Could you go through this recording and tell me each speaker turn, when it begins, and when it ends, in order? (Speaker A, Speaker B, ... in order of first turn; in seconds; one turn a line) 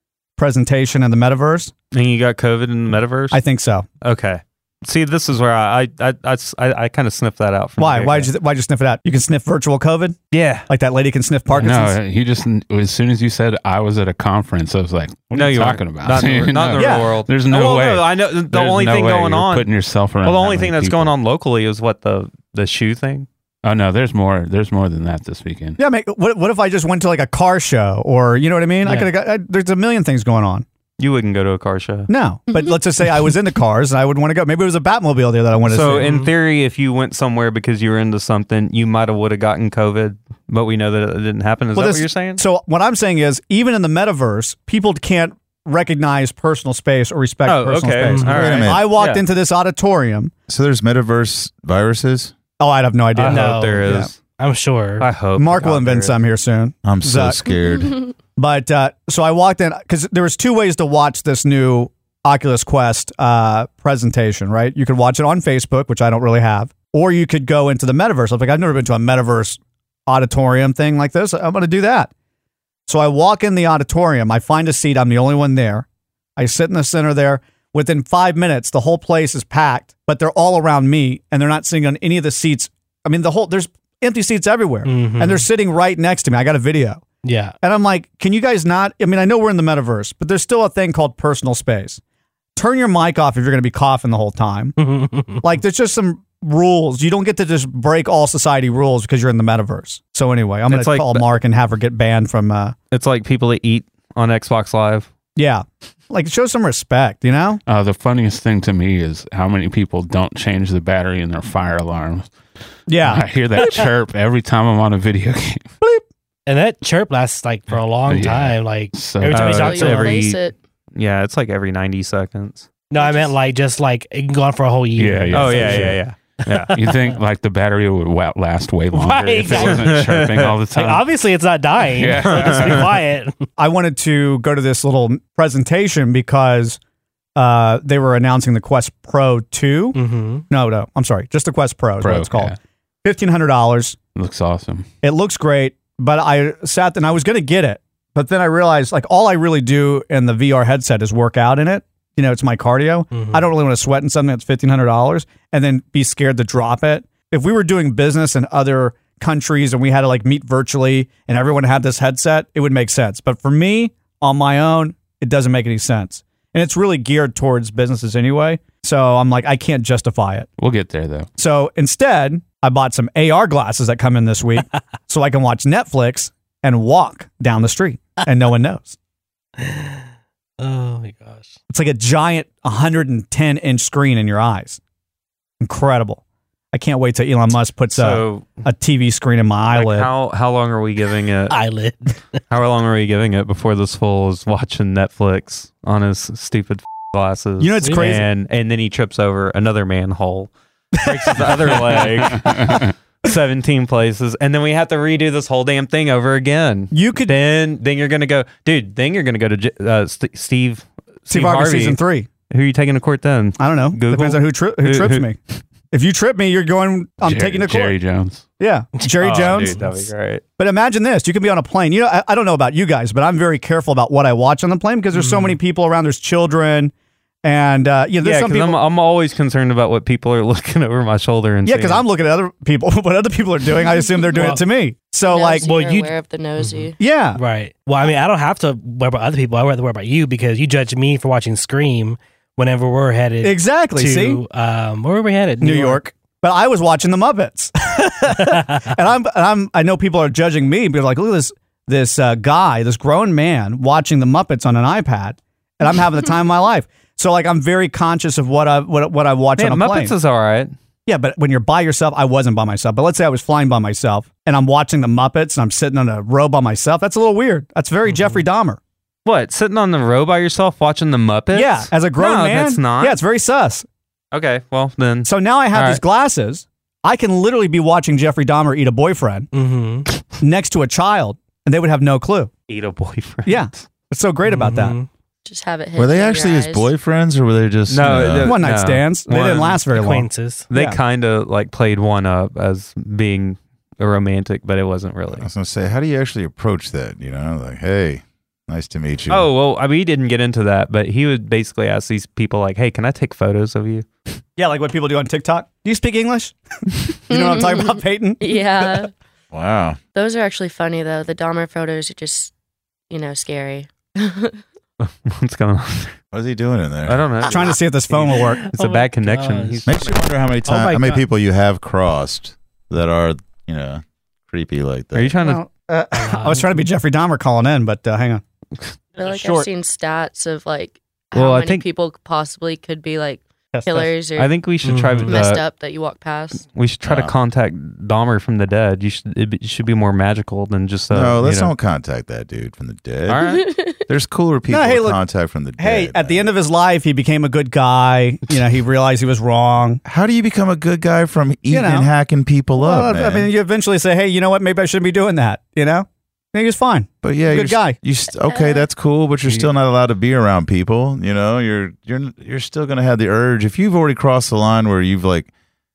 Speaker A: 0.4-1.7
Speaker B: 1.9-3.4
Speaker A: 3.3-3.9
Speaker B: 4.0-8.3
Speaker A: 7.8-12.0
Speaker B: 10.3-10.7
Speaker C: 11.5-21.1
Speaker B: 15.3-19.7
Speaker A: 16.8-17.1
Speaker B: 20.2-23.3
Speaker C: 23.6-25.8
Speaker A: 25.8-30.7
Speaker D: 28.8-29.1
Speaker B: 31.0-32.1
Speaker A: 32.1-36.2
Speaker B: 35.7-42.4
Speaker D: 36.0-36.3
Speaker A: 41.8-50.3
Speaker B: 47.5-49.2
Speaker D: 48.1-48.5
Speaker E: 48.3-48.9
Speaker E: 50.5-52.3
Speaker A: 52.6-54.1
Speaker B: 53.1-54.2
Speaker D: 53.2-55.1
Speaker B: 55.0-56.2
Speaker A: 55.4-57.5
Speaker E: 56.9-58.1
Speaker A: 58.4-72.1
Speaker A: 72.9-75.9
Speaker A: 76.4-87.1
Speaker D: 84.8-85.5
Speaker D: 87.2-87.6
Speaker A: 87.6-92.0
Speaker A: 92.6-94.8
Speaker D: 94.8-95.5
Speaker A: 95.4-102.8
Speaker B: 100.7-101.3
Speaker B: 102.9-105.1
Speaker A: 105.4-107.6
Speaker C: 107.7-112.3
Speaker A: 112.9-113.3
Speaker C: 113.0-115.7
Speaker D: 113.6-113.9
Speaker D: 116.5-120.2
Speaker C: 118.1-119.8
Speaker B: 119.3-120.4
Speaker F: 119.5-120.5
Speaker B: 121.0-122.7
Speaker D: 122.9-127.1
Speaker F: 123.0-123.3
Speaker C: 125.0-126.0
Speaker B: 125.3-126.7
Speaker C: 126.7-131.3
Speaker D: 128.9-133.4
Speaker B: 129.5-130.6
Speaker C: 131.8-132.9
Speaker B: 132.2-132.8
Speaker A: 133.6-136.8
Speaker A: 137.4-144.0
Speaker D: 139.9-140.4
Speaker C: 142.0-142.6
Speaker C: 144.2-144.9
Speaker A: 145.0-170.5
Speaker D: 153.1-153.5
Speaker C: 170.6-171.3
Speaker A: 171.4-179.0
Speaker D: 179.6-180.0
Speaker D: 180.6-181.6
Speaker A: 181.7-184.8
Speaker A: 185.6-186.2
Speaker A: 186.7-190.1
Speaker B: 187.9-188.6
Speaker B: 189.7-191.6
Speaker D: 191.5-192.2
Speaker B: 192.5-212.0
Speaker A: 197.6-198.3
Speaker D: 197.8-198.2
Speaker A: 201.1-201.9
Speaker C: 202.3-202.9
Speaker A: 206.9-207.4
Speaker A: 211.3-212.3
Speaker B: 212.5-215.3
Speaker A: 213.6-215.4
Speaker A: 215.9-218.0
Speaker C: 217.2-218.4
Speaker A: 218.6-219.8
Speaker D: 219.0-220.1
Speaker B: 219.2-220.4
Speaker A: 220.6-228.8
Speaker D: 225.1-225.6
Speaker B: 228.2-232.0
Speaker A: 231.7-235.7
Speaker D: 234.3-234.6
Speaker F: 235.3-236.9
Speaker D: 235.6-246.0
Speaker A: 237.0-237.4
Speaker A: 243.4-244.4
Speaker A: 245.6-260.1
Speaker D: 248.5-248.8
Speaker B: 259.6-260.7
Speaker A: 261.1-268.8
Speaker B: 269.2-273.2
Speaker A: 271.5-273.9
Speaker B: 274.3-276.0
Speaker A: 275.2-279.5
Speaker D: 279.5-280.1
Speaker A: 280.4-282.5
Speaker B: 282.7-283.8
Speaker A: 283.5-285.0
Speaker D: 284.4-285.1
Speaker F: 285.4-286.9
Speaker E: 286.0-288.6
Speaker B: 287.9-289.8
Speaker A: 288.4-291.0
Speaker D: 289.9-290.7
Speaker B: 290.7-295.5
Speaker E: 295.3-299.5
Speaker B: 299.3-304.1
Speaker A: 304.6-306.6
Speaker A: 307.3-309.1
Speaker F: 307.3-309.1
Speaker E: 309.5-310.0
Speaker F: 310.1-312.5
Speaker F: 313.1-314.6
Speaker B: 315.0-316.2
Speaker E: 316.3-317.4
Speaker B: 317.1-320.2
Speaker A: 317.4-318.6
Speaker D: 318.3-320.1
Speaker E: 319.9-325.4
Speaker D: 320.6-321.3
Speaker B: 325.1-325.6
Speaker A: 325.4-328.4
Speaker D: 326.1-326.7
Speaker F: 329.2-334.6
Speaker A: 329.3-329.7
Speaker B: 331.4-331.8
Speaker A: 333.7-334.1
Speaker B: 334.4-335.6
Speaker D: 334.8-335.4
Speaker F: 335.3-336.7
Speaker B: 336.7-341.7
Speaker E: 337.1-337.3
Speaker E: 341.1-343.4
Speaker B: 343.3-343.7
Speaker F: 343.4-344.0
Speaker E: 344.1-346.5
Speaker A: 344.7-345.2
Speaker A: 345.8-350.0
Speaker E: 350.1-353.5
Speaker A: 351.7-352.1
Speaker A: 352.8-358.0
Speaker E: 357.2-365.5
Speaker F: 358.5-358.9